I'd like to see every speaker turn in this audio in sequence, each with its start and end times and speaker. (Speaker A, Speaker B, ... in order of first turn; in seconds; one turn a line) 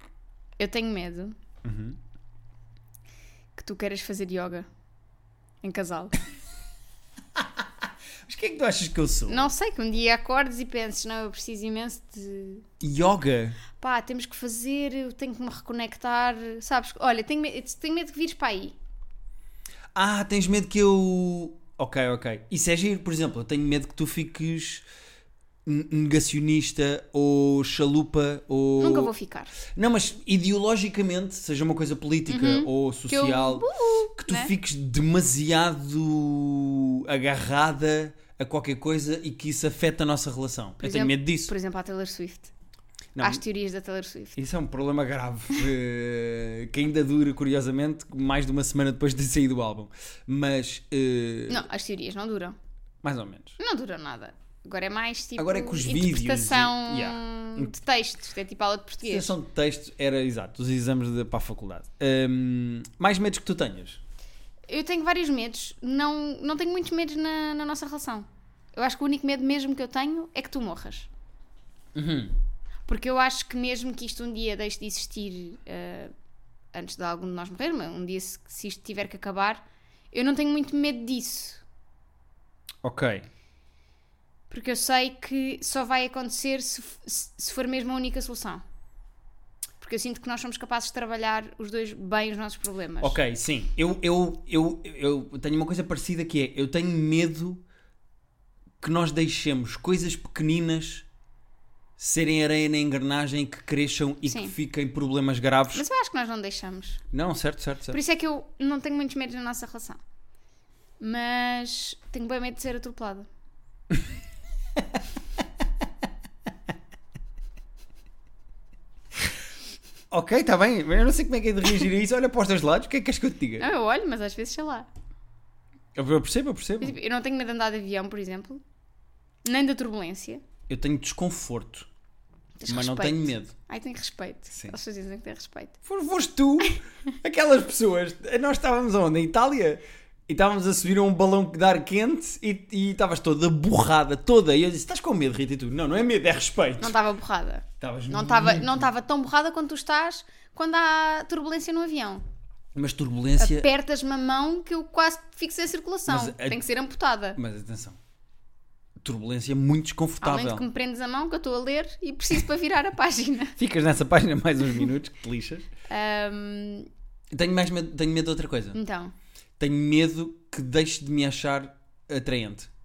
Speaker A: 0.6-1.4
Speaker B: 1.6-2.0
Speaker A: 3.5-4.7
Speaker A: 5.6-6.2
Speaker B: 7.3-9.5
Speaker A: 9.3-12.6
Speaker B: 12.8-13.6
Speaker A: 13.7-18.7
Speaker B: 19.9-24.8
Speaker B: 25.6-29.1
Speaker A: 28.8-29.5
Speaker B: 29.7-41.5
Speaker A: 32.3-34.5
Speaker A: 40.8-42.5
Speaker B: 43.1-43.4
Speaker A: 43.2-44.4
Speaker B: 44.4-51.7
Speaker A: 51.5-52.6
Speaker B: 53.0-53.6
Speaker A: 53.6-59.4
Speaker B: 55.4-57.7
Speaker B: 59.0-64.0
Speaker A: 64.7-71.1
Speaker B: 71.9-72.3
Speaker A: 72.9-76.1
Speaker A: 76.7-81.6
Speaker B: 82.8-83.2
Speaker A: 84.5-88.6
Speaker A: 89.8-93.2
Speaker B: 93.0-97.6
Speaker B: 98.8-101.0
Speaker B: 102.0-105.8
Speaker A: 104.2-104.5
Speaker A: 105.7-107.0
Speaker B: 107.1-108.0
Speaker A: 107.9-110.0
Speaker A: 111.0-113.3
Speaker B: 120.1-123.7
Speaker A: 123.6-124.9
Speaker B: 125.9-127.0
Speaker A: 126.8-128.6
Speaker A: 129.4-130.4
Speaker B: 130.7-131.9
Speaker A: 132.6-135.8
Speaker B: 132.7-133.5
Speaker B: 134.5-134.8
Speaker B: 135.8-147.0
Speaker A: 146.8-152.2
Speaker B: 147.8-148.9
Speaker B: 152.7-153.7
Speaker A: 153.4-157.4
Speaker B: 156.1-156.6
Speaker B: 157.3-158.0
Speaker B: 159.0-160.6
Speaker A: 160.2-163.6
Speaker B: 163.6-165.7
Speaker A: 165.9-166.9
Speaker B: 167.3-168.8
Speaker A: 168.7-169.1
Speaker B: 169.6-172.7